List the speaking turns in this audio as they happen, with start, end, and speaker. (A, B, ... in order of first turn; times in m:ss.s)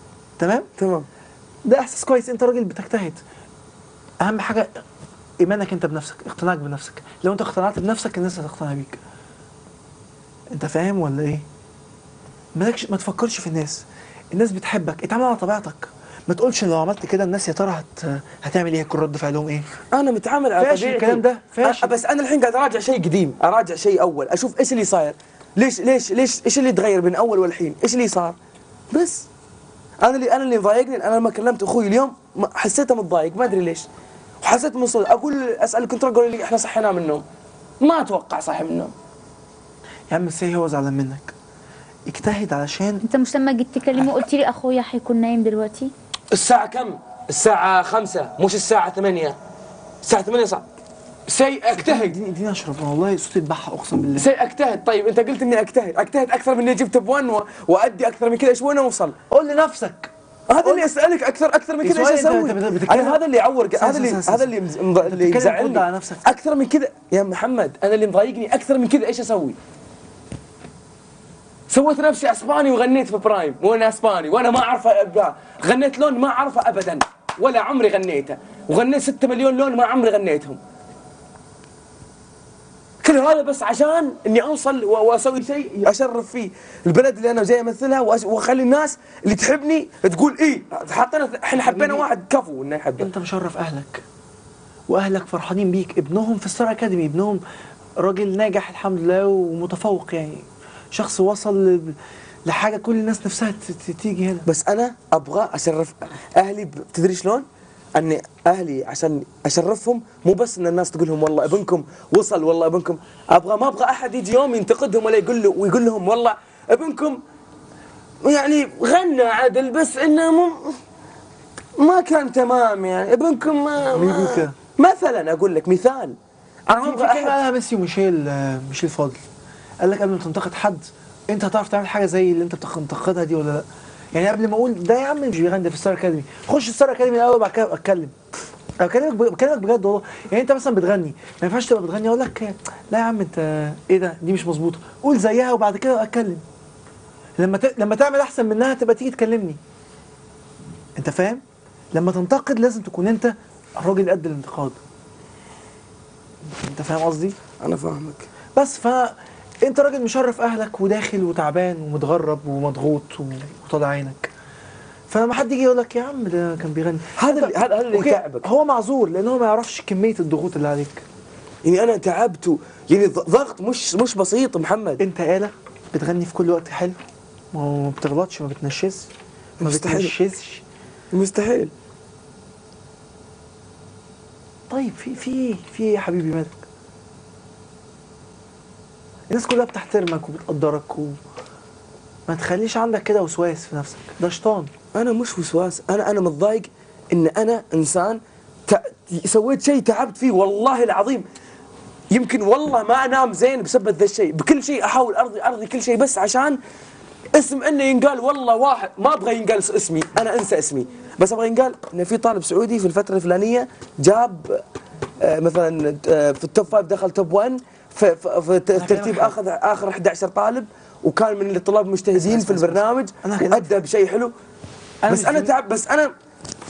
0:00.4-0:00.7 A
0:00.8-0:01.1 B
0:01.6-0:03.2 A
0:04.2-0:04.7 A
0:05.4-0:09.0 A
0:10.5-0:11.4 A
0:12.5-0:19.7 A
0:19.9-0:28.4 B
0:20.6-0:21.9 A
0:28.9-0:29.3 B
0:30.0-0:33.8 B
0:34.4-0:37.2 B
0:37.8-0:38.9 B
0:40.1-0:41.3 A
0:42.1-0:43.0 A
0:43.0-0:45.9 C
0:46.3-0:49.4 B
0:50.0-0:50.6 B
0:51.3-0:52.2 B
0:51.7-0:54.3 A
0:54.1-0:59.2 B
0:59.3-1:00.1 A
1:00.5-1:09.6 B
1:00.6-1:00.9 A
1:01.8-1:03.2 A
1:03.8-1:06.3 A
1:11.7-1:20.6 B
1:23.0-1:33.1 B
1:31.5-1:32.1 A
1:33.0-1:34.0 A
1:34.9-1:37.4 A
1:38.0-1:44.5 A
1:44.4-1:57.2 B
1:58.2-2:00.8 B
2:01.8-2:06.2 B
2:03.9-2:04.5 A
2:06.7-2:07.4 B
2:06.8-2:09.2 A
2:09.8-2:18.1 A
2:18.8-2:26.4 A
2:27.4-2:29.6 A
2:31.0-2:31.4 A
2:31.9-2:34.8 A
2:36.6-2:37.4 A
2:37.6-2:38.3 B
2:38.6-2:44.3 A
2:45.1-2:51.0 A
2:47.2-2:48.5 B
2:51.6-2:55.0 B
2:55.0-2:57.0 A
2:57.5-2:59.1 A
2:59.6-3:00.1 B
2:59.6-3:00.6 A
3:01.1-3:01.7 B
3:04.7-3:06.7 A
3:09.3-3:11.2 A
3:12.3-3:14.7 A
3:14.9-3:21.2 B
3:22.1-3:26.6 B
3:27.3-3:34.6 B
3:35.2-3:44.3 B
3:38.7-3:39.4 A
3:42.1-3:43.7 A
3:45.0-3:45.5 A
3:45.1-3:46.1 B